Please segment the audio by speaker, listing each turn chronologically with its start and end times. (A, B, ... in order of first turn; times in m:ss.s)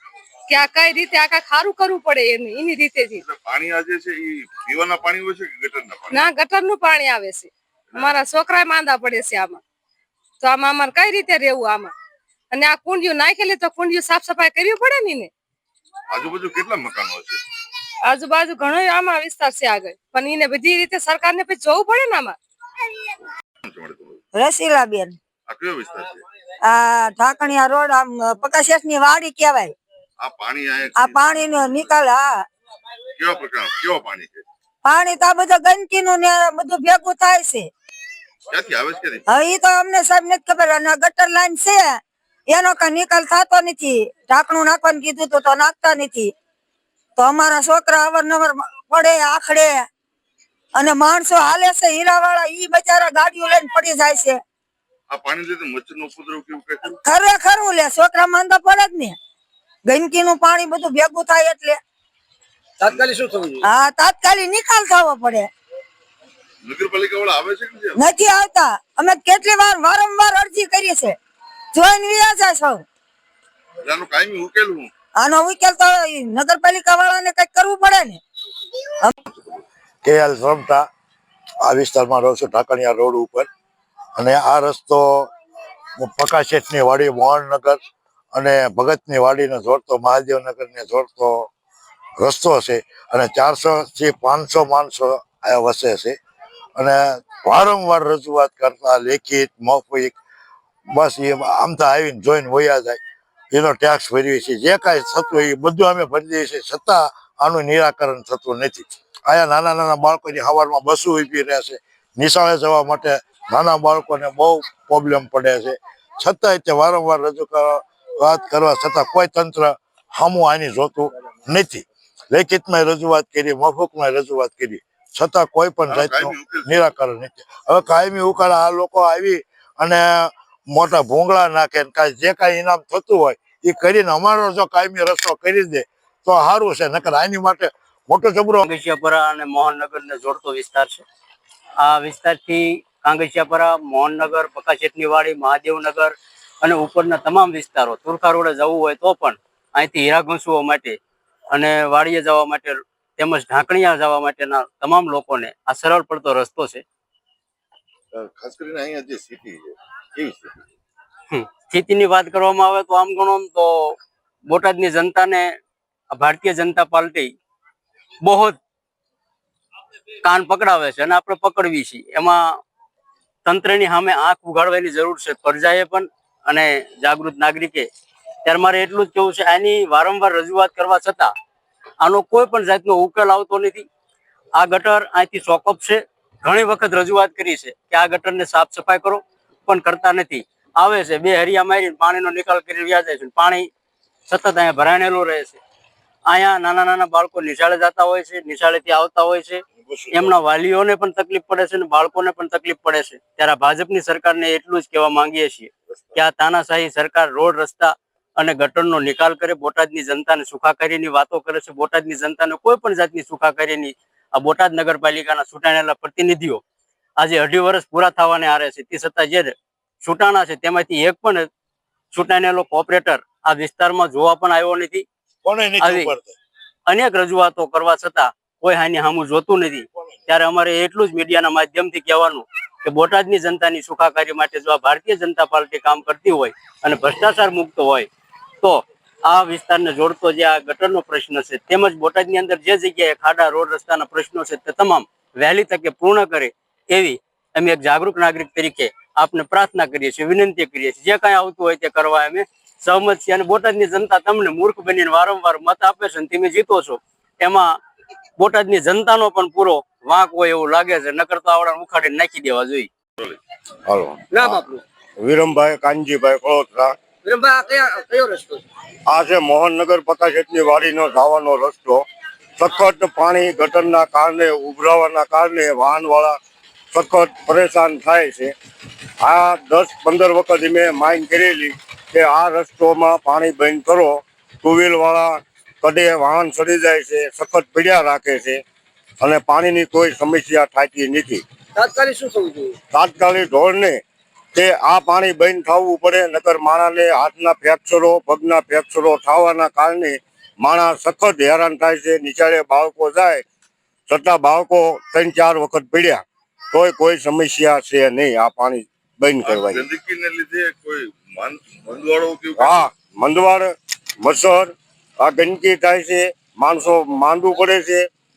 0:00.5-0:03.2 A
0:03.2-0:06.3 B
0:06.1-0:09.6 A
0:10.4-0:11.9 A
0:12.5-0:15.3 A
0:16.1-0:17.4 B
0:18.0-0:22.4 A
0:23.6-0:24.2 B
0:24.3-0:25.2 C
0:25.5-0:26.2 B
0:26.6-0:29.7 C
0:30.2-0:31.8 B
0:31.0-0:32.4 C
0:33.2-0:34.4 B
0:34.8-0:37.7 C
0:38.5-0:39.2 B
0:39.3-0:46.3 C
0:47.2-0:49.8 C
0:50.8-0:54.4 C
0:55.1-0:57.0 B
0:57.0-0:59.2 C
0:59.9-1:01.8 C
1:02.8-1:03.6 D
1:03.6-1:05.5 C
1:06.6-1:08.0 B
1:07.9-1:11.2 C
1:11.7-1:12.8 C
1:13.8-1:14.9 B
1:15.2-1:18.2 C
1:20.0-1:20.8 E
1:21.6-1:23.5 E
1:24.2-1:25.3 E
1:26.0-1:27.8 E
1:28.3-1:31.5 E
1:32.2-1:36.2 E
1:36.8-1:40.2 E
1:40.9-1:43.0 E
1:43.5-2:18.6 E
2:05.9-2:06.9 B
2:18.6-2:21.0 F
2:21.8-2:31.0 F
2:31.5-2:36.8 F
2:38.1-2:40.6 B
2:41.3-2:44.0 F
2:44.5-2:45.5 F
2:46.1-2:47.3 F
2:48.2-2:48.6 F
2:50.2-2:52.4 F
2:53.4-2:57.9 F
2:58.4-3:01.3 F
3:02.0-3:03.8 F
3:04.6-3:13.7 F
3:14.3-3:15.6 F
3:16.3-3:36.6 F
3:19.8-3:20.3 E
3:37.2-3:41.5 F
3:42.1-3:45.0 F
3:45.4-3:46.3 E
3:45.8-3:46.1 F
3:46.9-3:58.1 F
3:58.6-4:17.7 F
4:18.4-4:22.9 F
4:23.9-4:24.6 G
4:24.3-4:24.8 D
4:25.2-4:26.9 G
4:27.2-4:28.6 D
4:29.1-4:32.0 G
4:32.6-4:36.4 G
4:36.9-4:38.5 G
4:39.2-4:48.6 G
4:49.2-4:51.4 G
4:51.8-4:52.7 D
4:52.9-4:54.0 G
4:54.5-5:03.4 G
5:04.1-5:09.9 G
5:09.4-5:12.9 B
5:12.6-5:18.1 G